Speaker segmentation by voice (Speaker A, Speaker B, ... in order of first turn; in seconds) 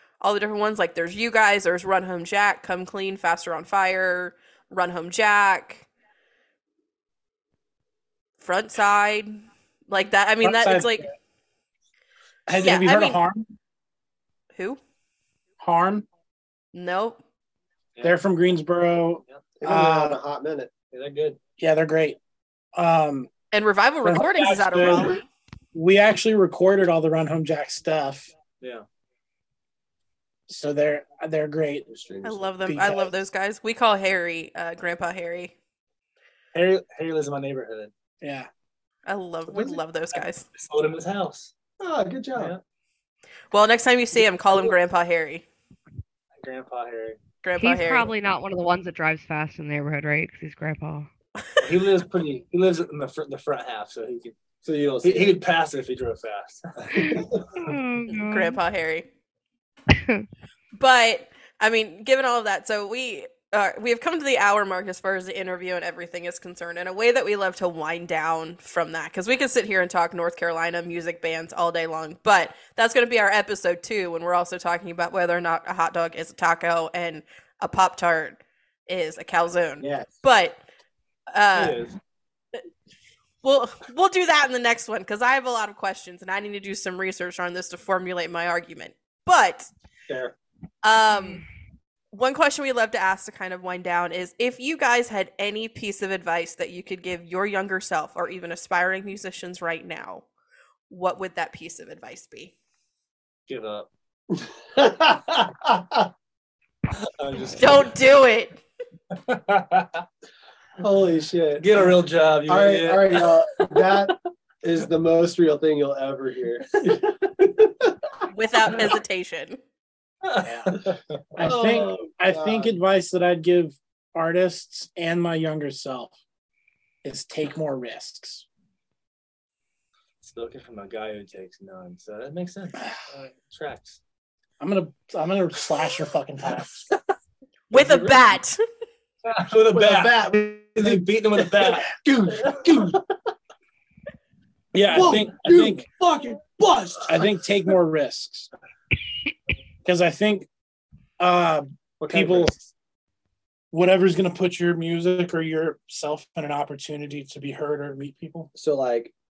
Speaker A: 0.2-5.9, 8.4-11.1, 12.6-13.2, 14.5-14.8, 16.7-17.2, 23.5-25.2, 32.2-35.5, 39.0-40.5, 43.5-45.4, 47.4-48.1, 58.2-59.1, 60.8-80.6, 81.3-81.8, 83.4-89.7, 90.8-91.4, 92.1-100.3, 100.9-102.5, 107.6-108.5, 118.3-119.6, 137.7-138.6
Speaker B: 10.4-11.1, 12.5-13.5, 15.6-16.0, 18.0-20.2, 21.6-22.2, 22.7-23.3, 24.0-25.2, 25.7-28.3, 30.5-31.9, 32.7-33.1, 38.2-38.5, 120.4-120.8, 121.3-126.1, 127.0-128.4, 134.6-136.9, 144.7-145.8, 147.1-148.5, 149.8-150.5, 151.2-152.5, 153.7-158.5
Speaker C: 19.6-20.7, 31.9-32.5, 41.8-42.5, 54.6-55.4, 56.9-57.4, 79.8-80.1, 90.1-90.3, 104.4-106.1, 110.8-111.8, 112.5-118.2, 121.4-122.7, 139.7-143.0, 144.9-147.3, 152.0-152.6, 158.5-159.1
Speaker D: 20.9-21.4, 36.5-37.9, 39.5-41.5, 42.3-42.6, 46.4-47.2, 51.6-54.4, 55.0-57.3, 81.5-82.0, 103.5-103.9, 107.0-107.9, 109.1-110.0, 111.6-114.1, 120.2-121.0, 130.2-134.0, 137.7-138.2, 139.2-143.0, 145.0-145.2
Speaker E: 47.6-51.1, 56.9-58.6, 59.9-60.2